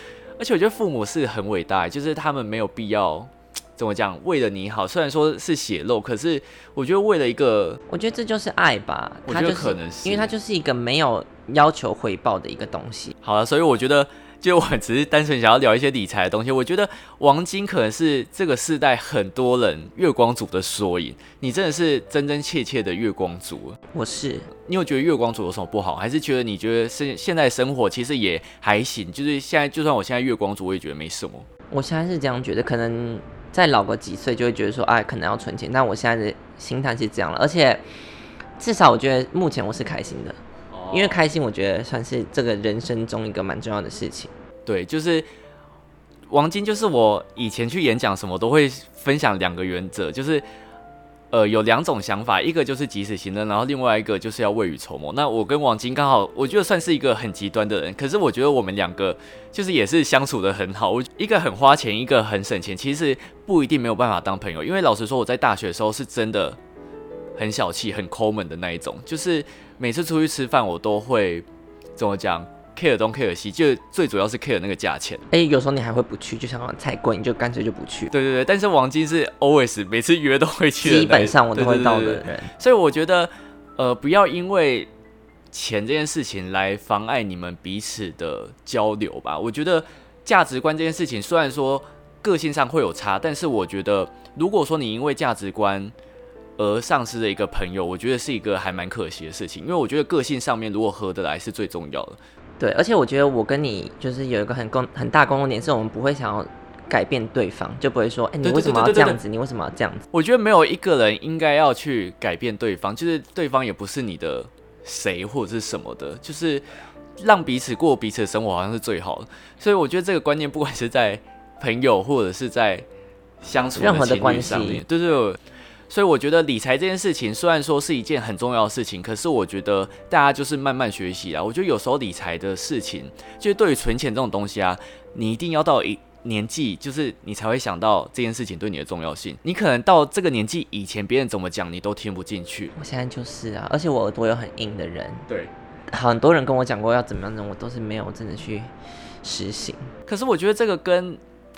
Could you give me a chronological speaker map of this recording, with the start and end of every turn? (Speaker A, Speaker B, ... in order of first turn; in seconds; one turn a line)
Speaker A: 0.4-7.8
Speaker B: 7.9-13.1
Speaker A: 9.3-10.3
Speaker A: 13.2-23.8
Speaker B: 23.9-24.5
Speaker A: 24.6-31.5
Speaker B: 31.7-37.8
Speaker B: 38.6-40.4
Speaker A: 40.7-41.2
Speaker B: 40.9-44.3
Speaker A: 44.6-45.2
Speaker A: 46.3-50.4
Speaker A: 51.3-66.6
Speaker A: 67.3-75.3
Speaker B: 75.3-78.1
Speaker A: 78.1-84.9
Speaker B: 80.8-82.5
Speaker A: 85.5-95.9
Speaker A: 96.6-102.2
Speaker B: 102.6-110.1
Speaker A: 108.4-109.2
Speaker A: 110.1-116.6
Speaker A: 117.2-122.8
Speaker A: 123.4-142.7
Speaker B: 123.8-124.8
Speaker B: 142.7-145.3
Speaker B: 145.9-148.7
Speaker B: 149.2-149.9
Speaker A: 150.1-151.2